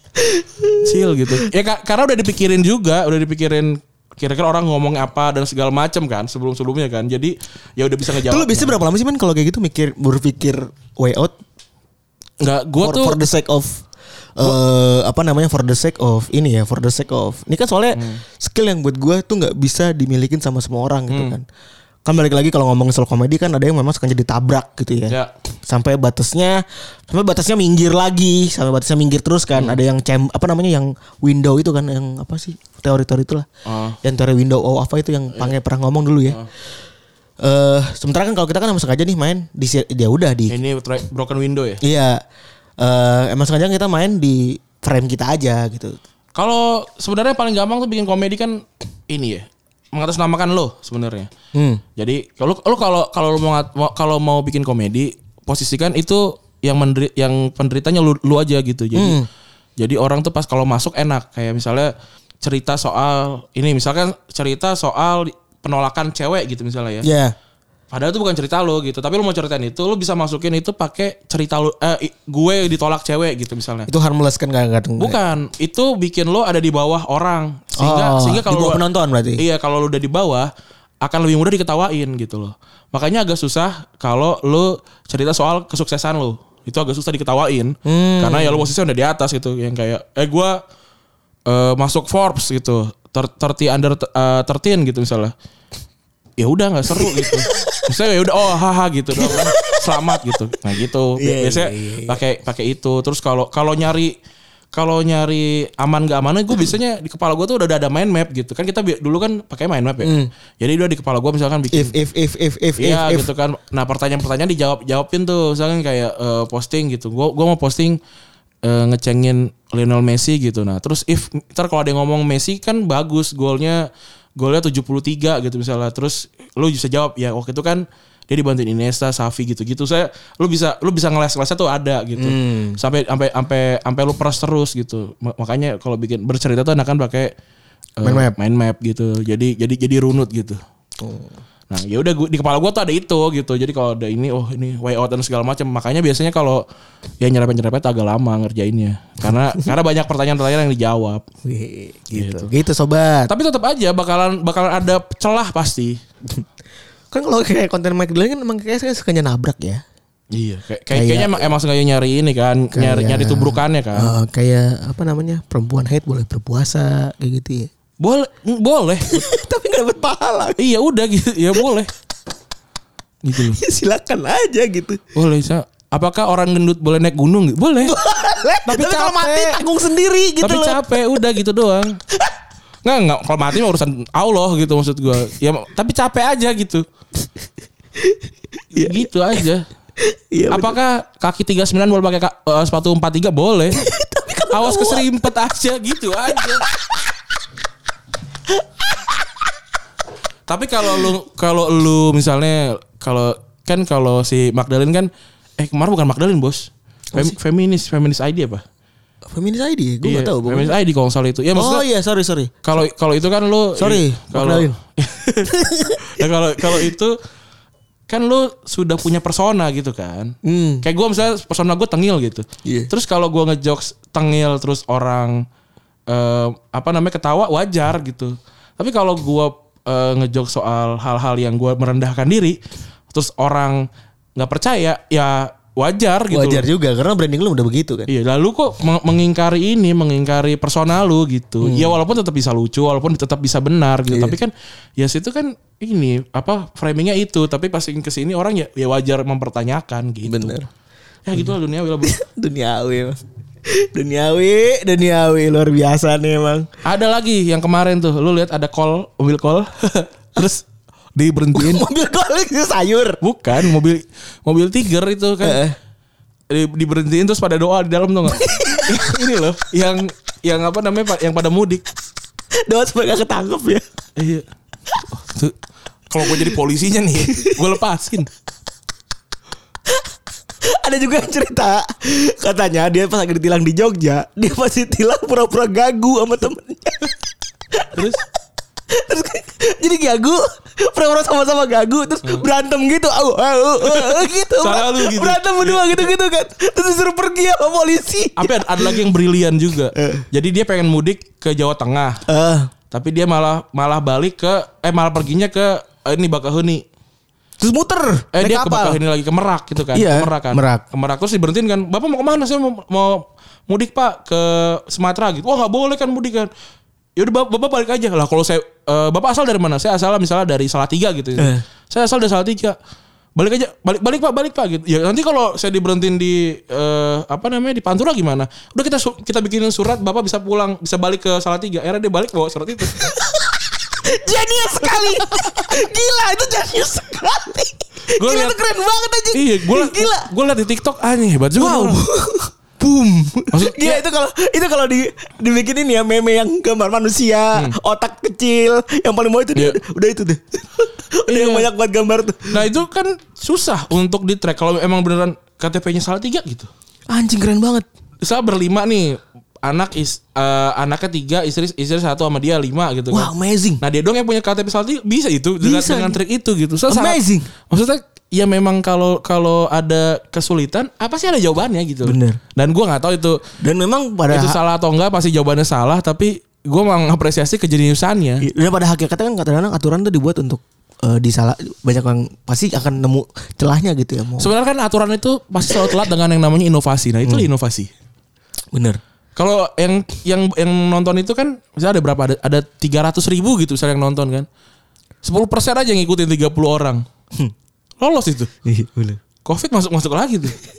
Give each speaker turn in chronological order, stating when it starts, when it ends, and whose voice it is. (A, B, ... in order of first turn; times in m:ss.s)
0:00.2-0:01.4 A
0:00.8-0:08.8 B
0:08.1-0:11.4 A
0:12.4-0:13.2 B
0:12.8-0:13.8 A
0:14.4-0:21.4 A
0:17.9-0:18.2 B
0:21.1-0:21.4 B
0:22.1-0:33.5 A
0:29.5-0:29.8 B
0:33.7-0:34.0 B
0:34.0-0:36.4 A
0:37.4-0:40.6 A
0:40.5-0:41.8 B
0:41.8-0:42.2 A
0:42.8-0:46.0 A
0:46.4-0:51.3 B
0:51.5-0:51.8 A
0:52.0-0:59.2 B
0:59.0-0:59.3 A
0:59.8-1:07.1 B
1:07.0-1:07.3 A
1:07.9-1:13.9 B
1:13.9-1:15.2 A
1:15.0-1:18.8 B
1:17.8-1:19.4 A
1:19.4-1:20.5 B
1:21.0-1:30.6 B
1:27.9-1:28.7 A
1:31.5-1:35.3 B
1:36.4-1:44.2 B
1:36.9-1:37.7 A
1:39.2-1:40.3 A
1:41.2-1:42.2 A
1:44.7-1:52.0 B
1:50.0-1:50.3 A
1:51.7-1:53.3 A
1:52.8-1:58.0 B
1:58.6-2:03.8 B
2:04.4-2:17.3 B
2:12.2-2:12.8 A
2:18.0-2:20.6 B
2:18.0-2:18.4 A
2:21.0-2:21.3 A
2:21.7-2:26.6 B
2:27.2-2:31.2 B
2:31.4-2:33.3 A
2:32.1-2:32.5 B
2:33.3-2:36.0 B
2:37.1-2:39.8 A
2:40.3-2:44.2 B
2:40.9-2:41.5 A
2:42.7-2:47.7 A
2:48.0-2:49.2 B
2:49.1-2:50.6 A
2:50.6-2:51.9 B
2:53.2-2:53.6 B
2:53.4-2:55.0 A
2:55.2-2:58.0 B
2:57.8-3:00.8 A
2:58.7-2:59.6 B
3:00.4-3:02.0 B
3:02.8-3:06.8 B
3:08.8-3:09.6 B
3:08.8-3:09.1 A
3:10.0-3:10.8 A
3:10.5-3:13.8 B
3:13.8-3:15.1 A
3:14.5-3:16.6 B
3:18.6-3:19.2 A
3:20.5-3:28.6 B
3:29.3-3:30.8 A
3:30.0-3:31.8 B
3:31.6-3:32.5 A
3:32.6-3:37.2 B
3:33.8-3:34.8 A
3:35.4-3:36.9 A
3:38.1-3:45.4 B
3:40.4-3:40.8 A
3:42.6-3:42.9 A
3:46.1-3:52.6 B
3:53.1-3:56.7 B
3:56.3-3:58.1 A
3:58.1-4:10.6 B
4:01.6-4:02.0 A
4:04.1-4:04.4 A
4:10.3-4:10.7 A
4:11.3-4:12.2 B
4:12.0-4:16.7 A
4:16.8-4:21.8 B
4:21.5-4:23.2 A
4:23.2-4:25.6 B
4:25.4-4:25.8 A
4:26.5-4:31.8 B
4:28.3-4:29.0 A
4:32.6-4:33.8 A
4:34.2-4:34.4 B
4:35.1-4:35.6 B
4:36.1-4:38.3 B
4:36.2-4:36.6 A
4:37.3-4:37.6 A
4:40.6-4:47.1 A
4:47.7-4:48.0 A
4:47.9-4:48.2 B
4:48.9-4:59.0 A
4:53.8-4:56.1 B
4:58.4-5:02.2 B
5:00.0-5:00.3 A
5:02.3-5:02.7 A
5:02.9-5:06.8 B
5:07.6-5:09.0 A
5:08.3-5:16.5 B
5:09.9-5:10.8 A
5:17.2-5:22.8 B
5:21.4-5:21.6 A
5:23.4-5:33.1 B
5:32.9-5:40.3 A
5:38.1-5:38.6 B
5:39.3-5:42.0 B
5:41.6-5:52.7 A
5:43.5-5:44.0 B
5:51.3-5:51.7 B
5:52.5-5:56.7 B
5:57.1-5:57.9 A
5:58.2-6:13.4 B
6:03.1-6:03.8 A
6:05.6-6:06.2 A
6:06.9-6:07.5 A
6:12.0-6:12.4 A
6:13.6-6:14.6 A
6:14.3-6:18.5 B
6:18.4-6:24.5 A
6:24.4-6:27.9 B
6:28.7-6:29.0 A
6:29.4-6:34.5 B
6:35.2-6:37.0 B
6:38.0-6:38.5 B
6:38.6-6:39.2 A
6:39.4-6:40.6 B